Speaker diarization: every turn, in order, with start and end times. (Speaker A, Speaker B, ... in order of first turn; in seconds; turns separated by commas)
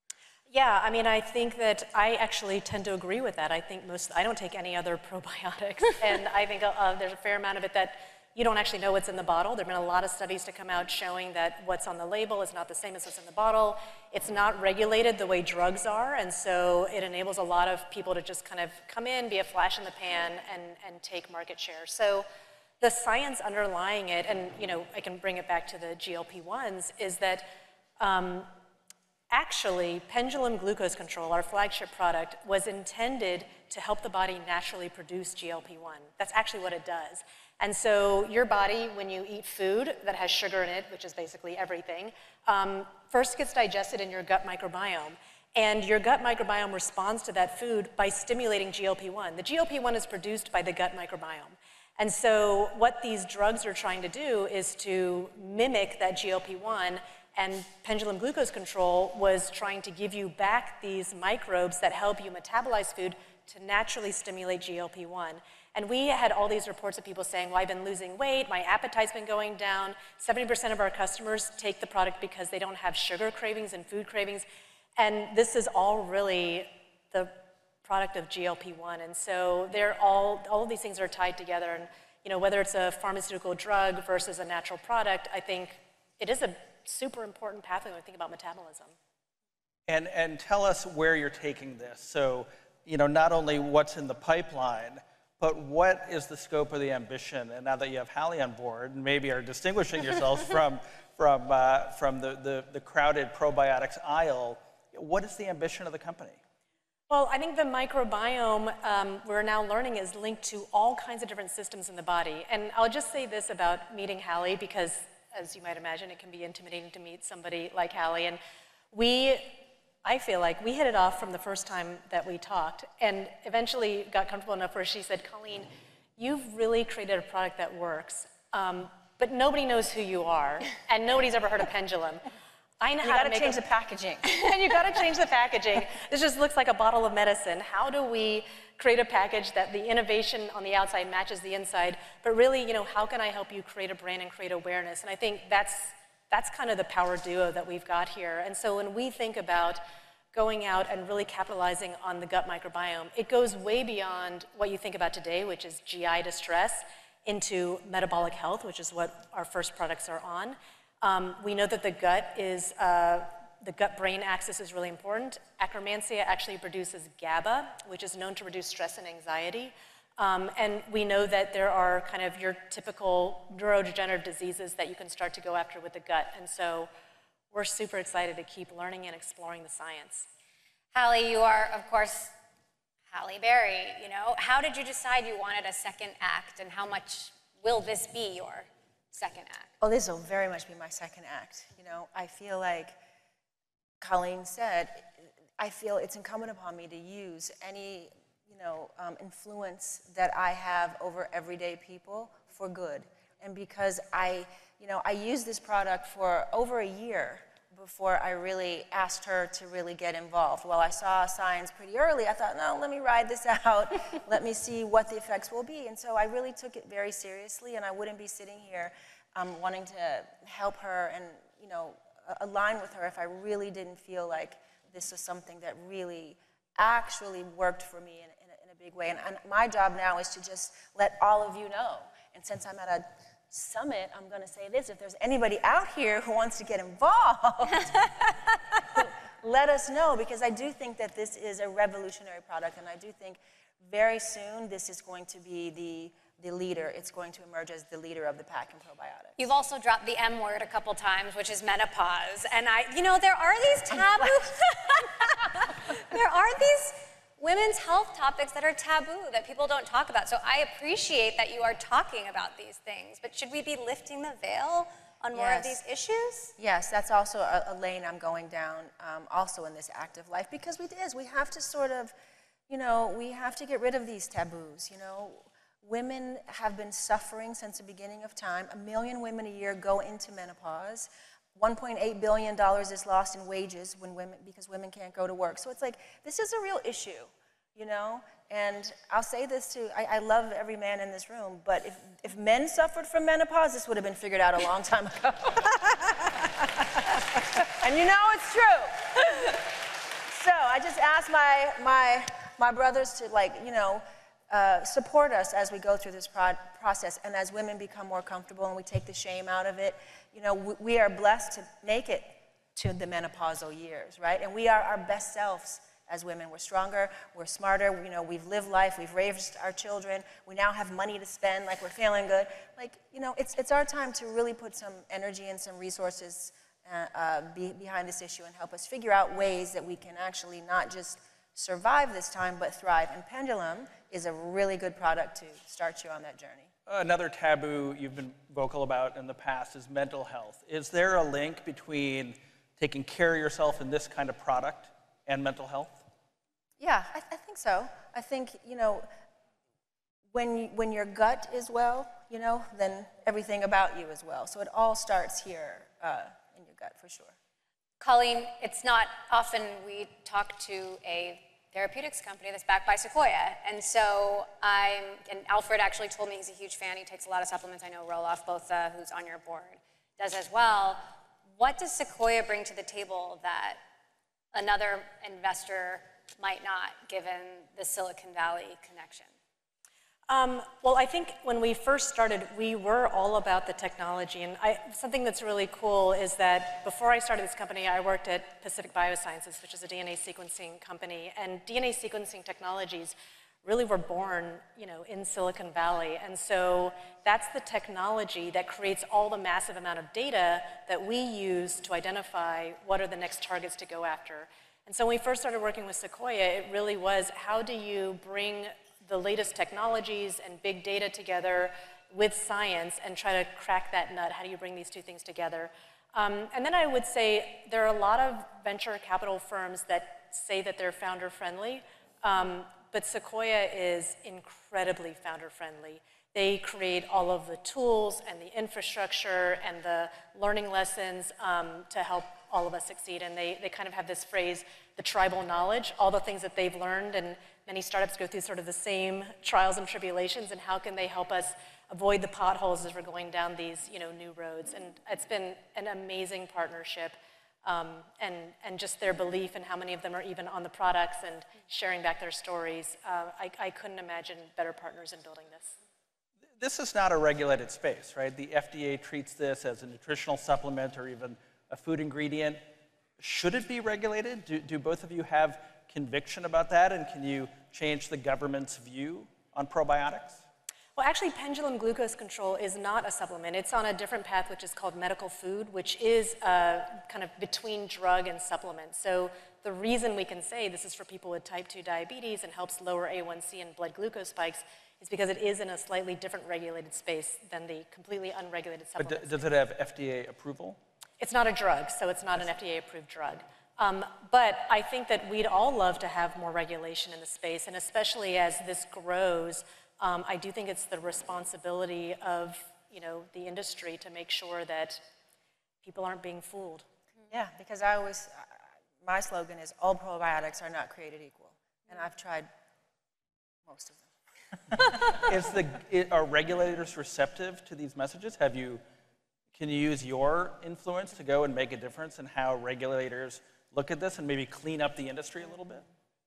Speaker A: 0.5-22.2, Speaker A: 22.8-27.4, Speaker A: 28.0-28.5, Speaker A: 29.3-74.4, Speaker A: 75.0-88.9, Speaker B: 89.9-106.4, Speaker A: 107.1-118.4, Speaker A: 118.9-132.2, Speaker A: 132.8-133.6, Speaker C: 133.0-134.2, Speaker A: 134.2-149.8, Speaker A: 150.3-176.9, Speaker A: 177.5-180.3, Speaker D: 180.9-182.3, Speaker D: 183.1-189.7, Speaker C: 189.8-192.9, Speaker C: 194.0-195.1, Speaker C: 195.6-238.3, Speaker C: 238.9-249.4, Speaker D: 249.4-266.5, Speaker C: 265.3-265.8, Speaker C: 266.6-272.1, Speaker C: 272.7-296.5, Speaker C: 297.4-299.6, Speaker C: 300.3-336.7, Speaker B: 336.9-346.0, Speaker C: 346.8-349.1, Speaker C: 350.3-357.3, Speaker D: 358.0-371.0, Speaker D: 371.6-373.8, Speaker D: 374.5-379.3, Speaker A: 380.3-455.8, Speaker B: 456.6-462.6, Speaker B: 463.2-470.4, Speaker A: 470.9-489.4, Speaker B: 489.0-490.8, Speaker A: 491.2-505.0, Speaker A: 505.8-506.9, Speaker C: 507.3-512.5, Speaker C: 513.6-514.1, Speaker C: 514.7-515.0, Speaker B: 515.1-518.8, Speaker B: 519.5-525.9